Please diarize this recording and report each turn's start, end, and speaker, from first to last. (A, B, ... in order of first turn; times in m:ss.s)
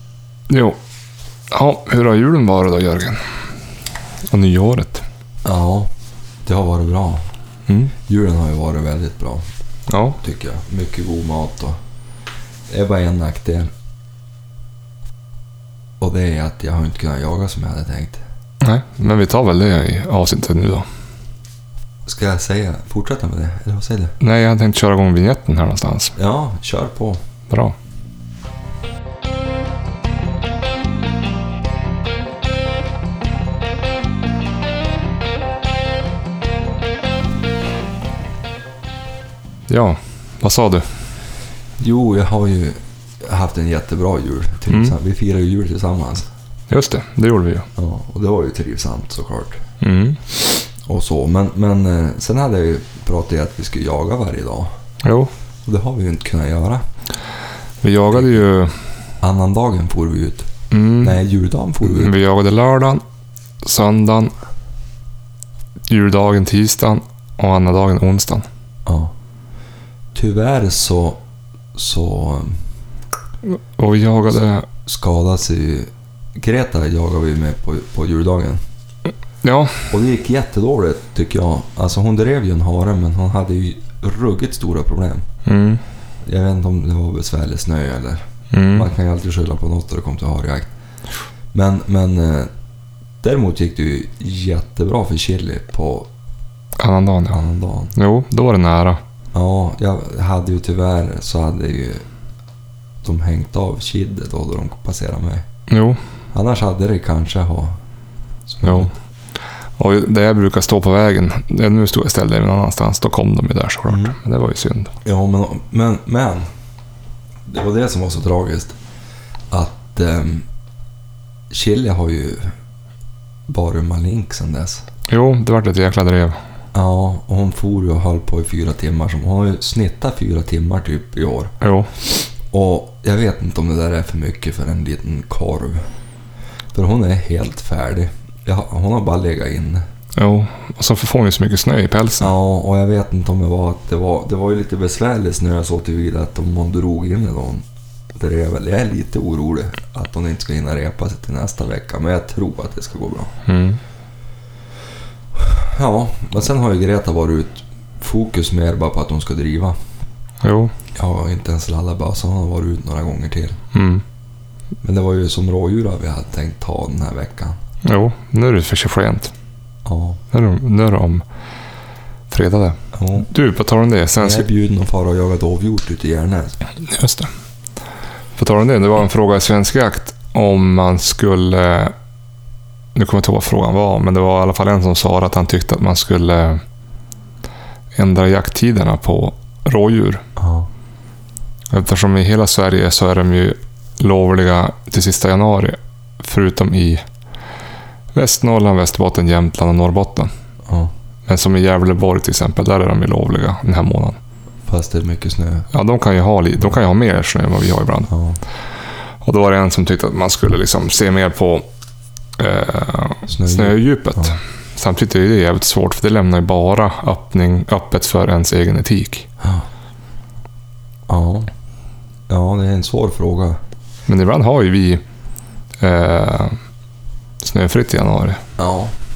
0:00.5-0:00.8 A
0:01.5-0:03.2 A
0:04.3-0:05.0 A
0:05.4-0:05.9 B
0:06.5-0:07.2 B
0:08.1-0:09.5 B
0:09.9-0:10.2 A
0:10.2-0:11.8 B
0:12.7-0:13.7 B
0:16.0-0:18.2 B
0:18.6-0:20.9 A
0:22.1-0:24.2 B
0:24.2-0:26.1 A
0:26.2-0:27.2 B
0:27.5-0:27.8 A
0:39.7-0:40.9 A
0:41.8-0:46.3 B
0:46.7-0:47.7 A
0:47.8-0:49.6 B
0:49.8-0:50.2 A
0:50.4-0:54.7 B
0:55.0-0:55.3 A
0:55.7-0:56.8 B
0:57.8-0:58.8 A
0:59.2-1:02.1 B
1:00.7-1:01.2 A
1:01.8-1:03.0 A
1:03.6-1:04.3 A
1:05.9-1:08.5 A
1:08.9-1:09.1 B
1:10.2-1:11.2 B
1:11.8-1:12.6 B
1:13.5-1:14.7 A
1:14.8-1:18.6 B
1:19.4-1:19.9 A
1:19.9-1:25.3 B
1:25.5-1:25.8 A
1:26.2-1:30.7 B
1:28.5-1:28.9 A
1:31.5-1:32.5 B
1:33.2-1:36.1 B
1:36.8-1:37.4 A
1:37.3-1:38.0 B
1:38.0-1:39.0 A
1:39.3-1:42.0 B
1:43.0-1:45.5 B
1:45.7-1:46.0 A
1:46.3-1:47.8 B
1:48.5-1:48.9 B
1:48.6-1:48.9 A
1:49.8-1:54.9 A
1:53.9-1:54.2 B
1:55.0-1:56.5 B
1:57.5-1:58.8 B
1:59.5-2:00.5 B
2:01.5-2:02.6 B
2:03.5-2:04.8 B
2:05.1-2:06.4 A
2:06.7-2:15.9 B
2:11.6-2:11.9 A
2:16.7-2:19.8 B
2:20.2-2:22.3 A
2:22.2-2:33.3 B
2:33.5-2:33.8 A
2:35.4-2:39.8 B
2:40.4-2:40.7 A
2:41.0-2:43.6 B
2:43.7-2:44.0 A
2:44.8-2:47.6 B
2:47.8-2:49.3 A
2:49.8-2:50.2 B
2:50.3-2:51.2 A
2:52.3-2:54.5 A
2:52.9-2:53.3 B
2:54.2-2:56.6 B
2:56.8-2:57.3 A
2:58.4-3:01.9 A
3:03.0-3:06.6 A
3:08.0-3:10.2 A
3:10.4-3:10.7 B
3:11.7-3:17.0 A
3:18.1-3:20.3 A
3:20.7-3:20.9 B
3:21.3-3:24.2 A
3:24.7-3:25.7 B
3:25.7-3:28.1 A
3:28.1-3:28.4 B
3:29.2-3:31.7 A
3:32.4-3:39.3 A
3:33.3-3:34.4 B
3:39.4-3:39.7 B
3:41.1-3:41.5 B
3:42.3-3:43.6 B
3:44.1-3:45.0 A
3:45.8-3:46.6 A
3:47.4-3:48.4 A
3:48.6-3:48.9 B